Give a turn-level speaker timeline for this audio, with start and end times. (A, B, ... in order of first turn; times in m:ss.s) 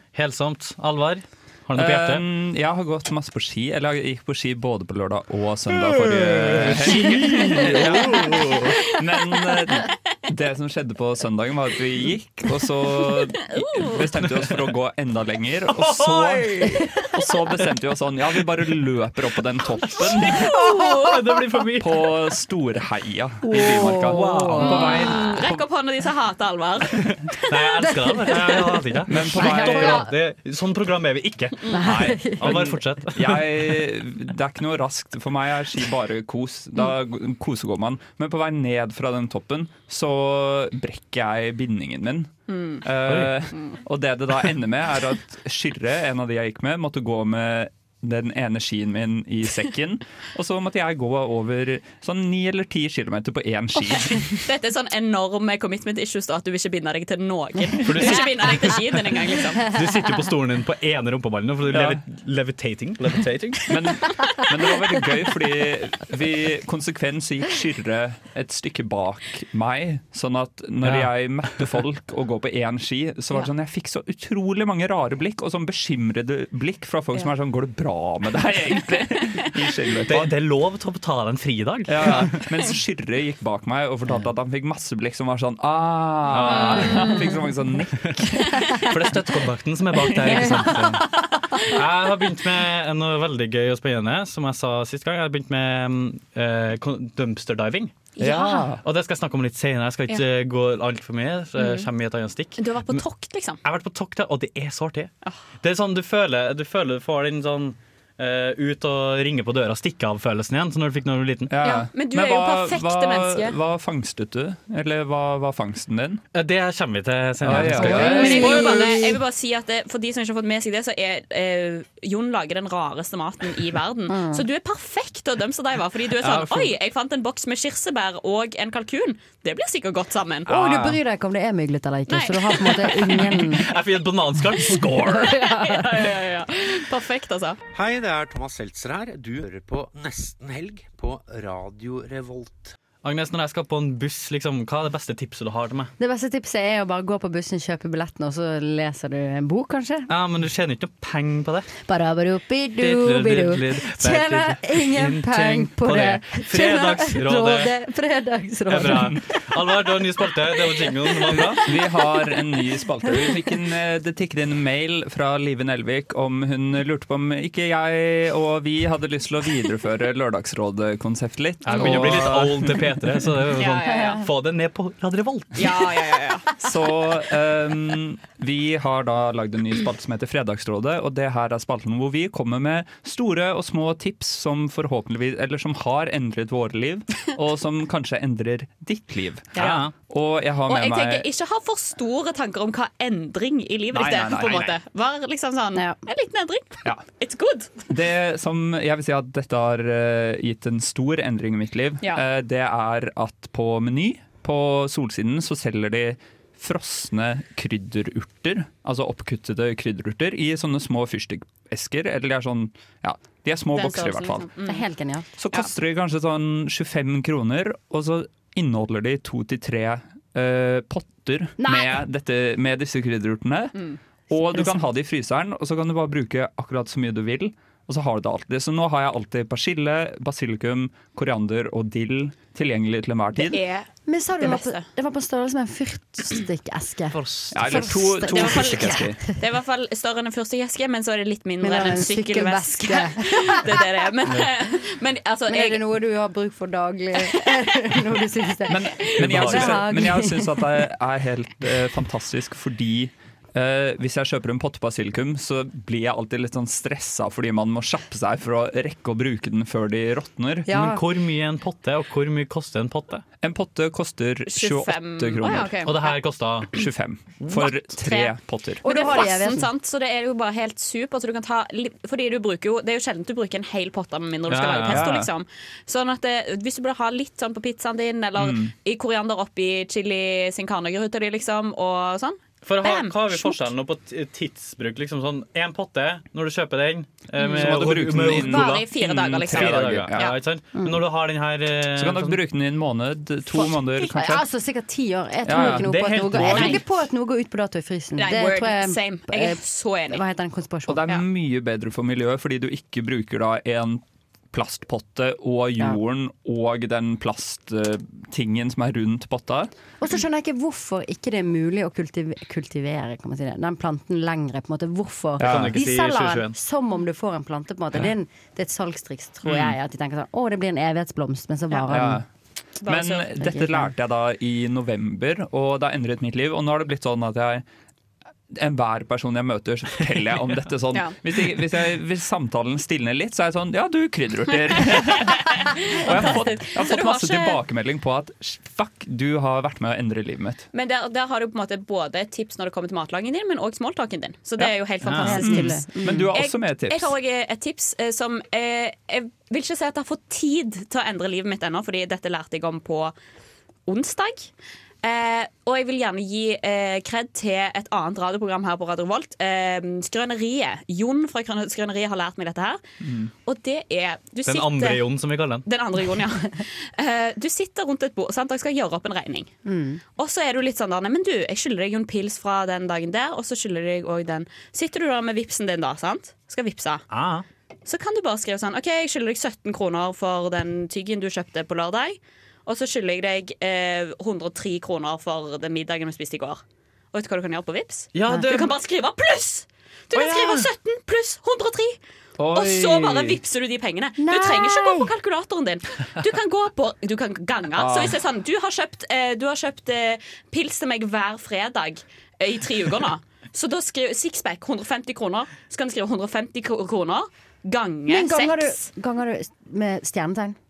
0:00.1-0:02.2 A
0:01.7-0:20.5 B
0:05.7-0:08.8 A
0:13.5-0:14.0 C
0:14.1-0:14.7 A
0:15.7-0:16.7 A
0:20.0-0:22.1 A
0:20.2-0:21.1 C
0:21.8-0:25.5 B
0:23.5-0:25.2 D
0:23.5-0:25.0 A
0:24.6-0:27.0 C
0:27.1-0:33.6 A
0:28.1-0:28.6 D
0:29.0-0:30.1 B
0:29.3-0:30.1 D
0:31.7-0:32.8 D
0:31.8-0:54.4 B
0:42.5-0:42.8 C
0:43.0-0:43.3 A
0:54.4-0:59.7 C
0:57.8-0:58.8 A
0:59.7-1:03.8 A
1:01.7-1:02.0 B
1:03.7-1:20.3 B
1:10.8-1:11.7 A
1:20.1-1:22.4 A
1:21.9-1:28.9 B
1:26.3-1:27.1 A
1:26.8-1:27.3 C
1:28.8-1:38.1 A
1:30.0-1:30.7 B
1:30.6-1:31.0 D
1:38.2-1:38.7 C
1:38.2-1:38.8 B
1:38.2-1:38.7 D
1:38.8-1:43.0 A
1:41.6-1:41.9 C
1:42.6-1:43.6 C
1:43.6-1:51.5 A
1:51.5-1:56.2 B
1:51.6-1:53.6 C
1:56.3-1:58.6 A
1:57.4-1:58.6 B
1:57.5-1:59.2 D
1:57.8-2:10.5 C
2:04.1-2:04.4 D
2:06.2-2:06.7 A
2:10.5-2:11.0 A
2:10.5-2:13.7 D
2:12.1-2:13.3 C
2:13.3-2:15.4 A
2:14.6-2:16.0 D
2:15.2-2:17.6 C
2:17.7-2:22.7 E
2:23.0-2:25.9 A
2:26.0-2:30.1 D
2:30.1-2:31.7 A
2:31.8-2:42.0 D
2:32.8-2:37.7 A
2:38.7-2:41.6 A
2:41.4-2:53.4 B
2:51.6-2:55.9 A
2:53.6-2:54.2 C
2:55.5-2:56.5 C
2:56.6-3:11.3 B
3:09.6-3:09.9 A
3:09.6-3:09.8 C
3:10.7-3:17.8 C
3:13.9-3:14.8 B
3:17.9-3:34.5 B
3:33.7-3:34.8 C
3:34.6-3:35.3 D
3:35.4-3:43.8 B
3:41.6-3:41.9 D
3:44.3-3:53.6 B
3:53.4-3:54.9 C
3:54.1-3:59.2 D
3:57.1-3:57.5 A
3:57.5-3:59.2 B
3:58.2-4:05.8 C
4:01.6-4:03.9 D
4:05.5-4:10.6 D
4:08.7-4:20.7 B
4:08.8-4:09.5 C
4:09.2-4:09.8 A
4:20.6-4:21.0 D
4:20.7-4:23.2 A
4:23.4-4:25.9 B
4:24.5-4:26.1 C
4:25.8-4:26.7 A
4:26.7-4:28.8 B
4:28.0-4:28.3 C
4:28.8-4:29.7 D
4:28.8-4:43.6 C
4:34.5-4:35.0 A
4:34.9-4:35.3 B
4:38.4-4:38.7 B
4:42.6-4:52.4 A
4:47.4-4:50.4 C
4:47.5-4:50.3 B
4:50.7-4:51.0 D
4:51.9-4:54.4 B
4:54.1-5:01.0 D
4:55.4-4:56.8 B
4:55.7-4:56.8 A
4:56.5-4:56.8 C
4:58.2-5:00.2 C
5:00.9-5:09.7 B
5:10.0-5:22.2 D
5:15.4-5:15.8 B
5:15.4-5:16.6 A
5:19.4-5:19.8 B
5:21.9-5:22.2 B
5:22.8-5:23.3 C
5:22.8-5:27.6 B
5:23.4-5:23.9 D
5:28.5-5:40.6 B
5:34.9-5:37.6 C
5:40.7-5:53.1 C
5:44.6-5:47.1 B
5:45.0-5:45.4 A
5:45.2-5:46.3 D
5:53.8-5:54.5 C
5:55.0-6:02.8 C
6:03.0-6:03.3 B
6:03.4-6:05.0 C
6:04.4-6:05.6 A
6:05.6-6:09.5 C
6:09.6-6:10.0 D
6:10.2-6:17.0 C
6:17.1-6:17.4 A
6:17.8-6:26.6 C
6:27.1-6:32.0 C
6:28.1-6:28.7 A
6:30.1-6:30.7 A
6:32.4-6:33.4 B
6:32.5-6:48.8 C
6:34.2-6:35.1 D
6:37.8-6:38.2 B
6:48.1-6:50.6 D